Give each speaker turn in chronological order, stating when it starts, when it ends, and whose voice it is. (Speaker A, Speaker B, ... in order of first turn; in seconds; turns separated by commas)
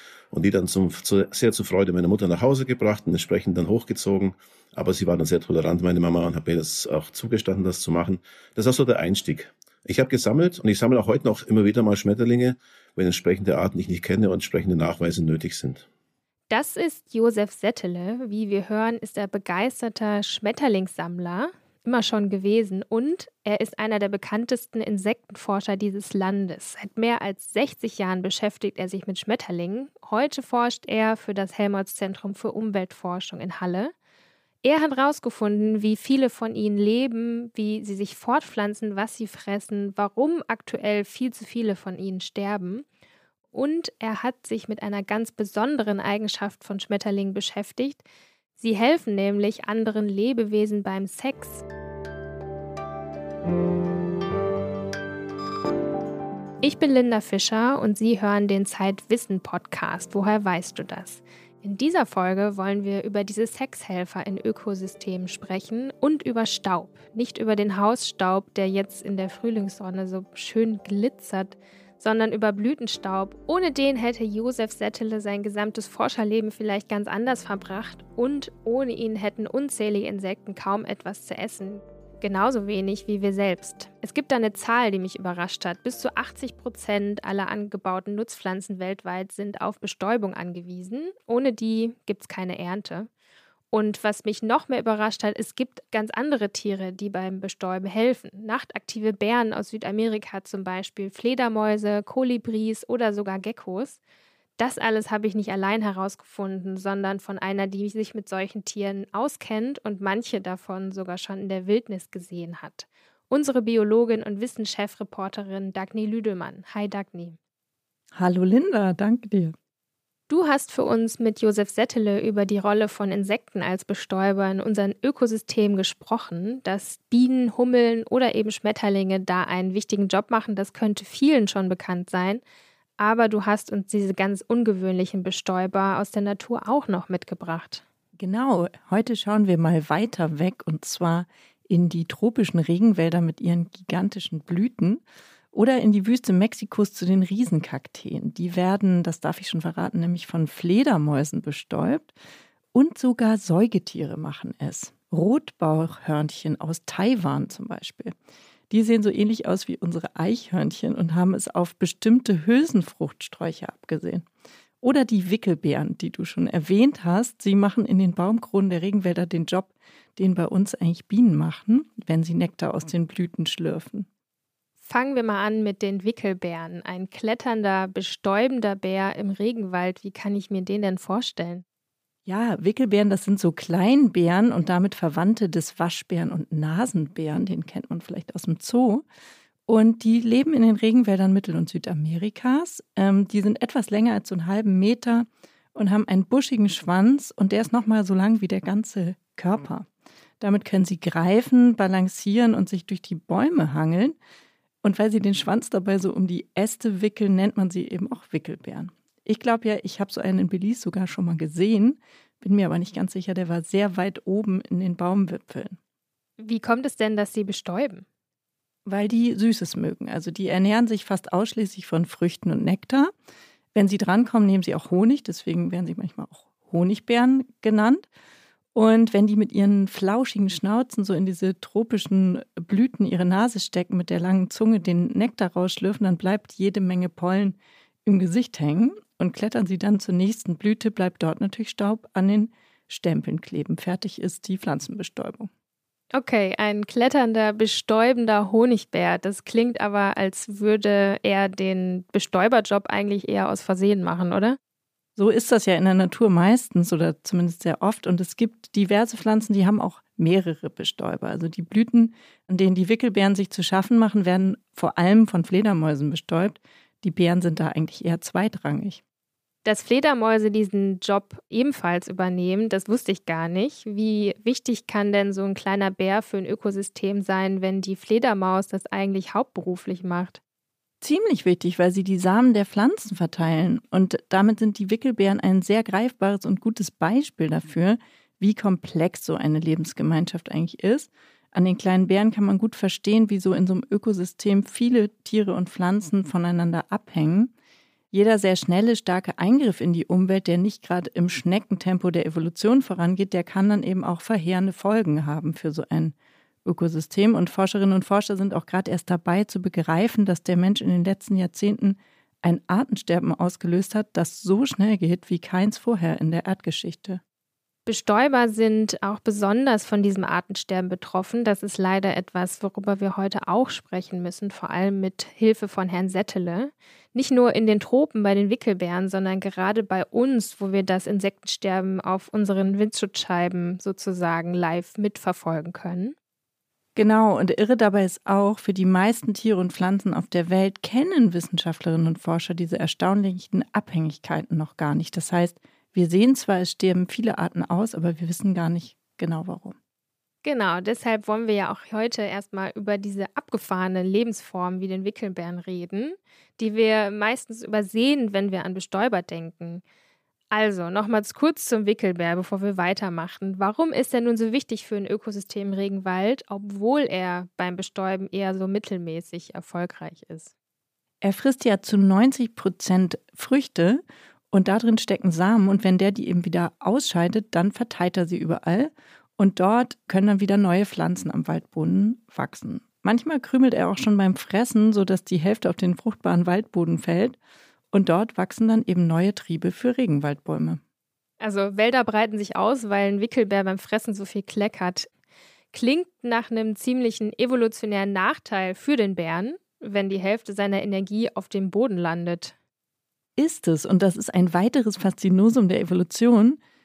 Speaker A: 0.3-15.8, Speaker B: 16.5-33.9, Speaker B: 34.6-42.9, Speaker B: 43.5-48.0, Speaker B: 48.6-51.6, Speaker B: 56.6-93.1, Speaker B: 93.7-104.0, Speaker B: 104.6-117.4, Speaker C: 118.2-119.5, Speaker B: 120.3-132.4, Speaker B: 133.0-137.8, Speaker C: 138.2-145.0, Speaker C: 145.5-152.1, Speaker C: 152.7-158.2, Speaker C: 158.7-164.3, Speaker C: 164.8-174.1, Speaker B: 174.8-181.6, Speaker C: 182.3-189.1, Speaker C: 189.7-199.9, Speaker C: 200.4-204.2, Speaker C: 204.8-215.8, Speaker B: 216.4-218.1, Speaker C: 218.9-223.1, Speaker C: 223.7-228.1, Speaker C: 228.7-245.5, Speaker B: 246.1-254.6, Speaker C: 255.2-269.0, Speaker B: 269.6-280.4, Speaker C: 281.0-297.5, Speaker C: 298.1-317.2, Speaker B: 317.9-336.2, Speaker C: 336.9-349.8, Speaker B: 350.4-359.8, Speaker B: 360.5-370.5, Speaker C: 371.2-387.4, Speaker C: 387.9-390.8, Speaker B: 391.4-395.1, Speaker B: 395.7-402.6, Speaker C: 403.4-406.6